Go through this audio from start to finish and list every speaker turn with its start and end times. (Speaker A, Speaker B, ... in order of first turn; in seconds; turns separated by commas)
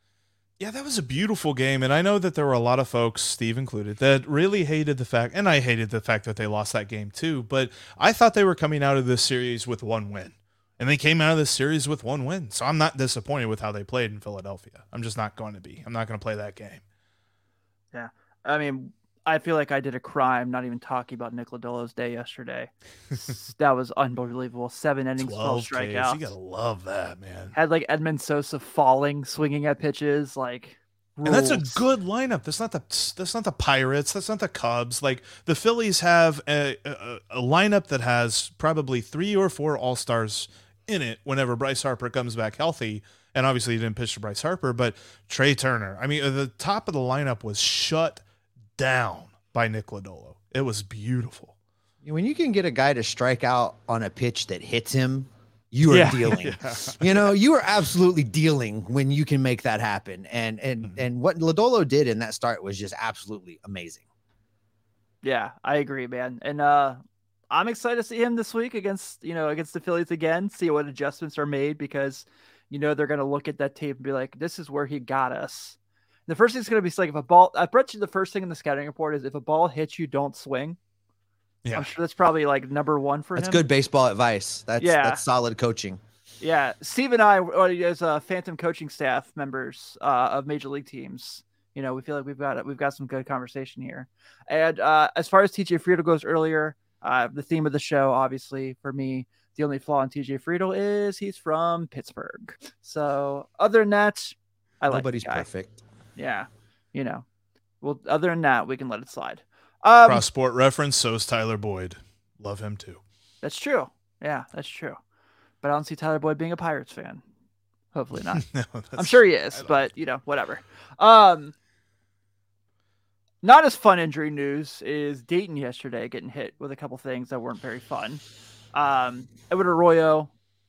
Speaker A: 0.6-16.8, Speaker B: 17.9-26.3, Speaker A: 25.2-27.5, Speaker B: 27.5-31.8, Speaker A: 31.2-48.2, Speaker A: 48.8-51.5, Speaker C: 52.0-64.0, Speaker B: 55.9-56.4, Speaker A: 56.2-57.2, Speaker B: 65.2-80.8, Speaker B: 81.7-83.6, Speaker C: 83.3-86.0, Speaker B: 84.8-85.2, Speaker B: 86.4-105.5, Speaker C: 104.9-105.8, Speaker B: 106.2-107.2, Speaker B: 107.8-110.2, Speaker A: 110.0-113.0, Speaker B: 113.4-115.0, Speaker B: 115.6-117.2, Speaker B: 117.9-118.4, Speaker A: 118.3-119.8, Speaker B: 119.0-121.5, Speaker B: 123.4-128.2, Speaker B: 128.7-130.3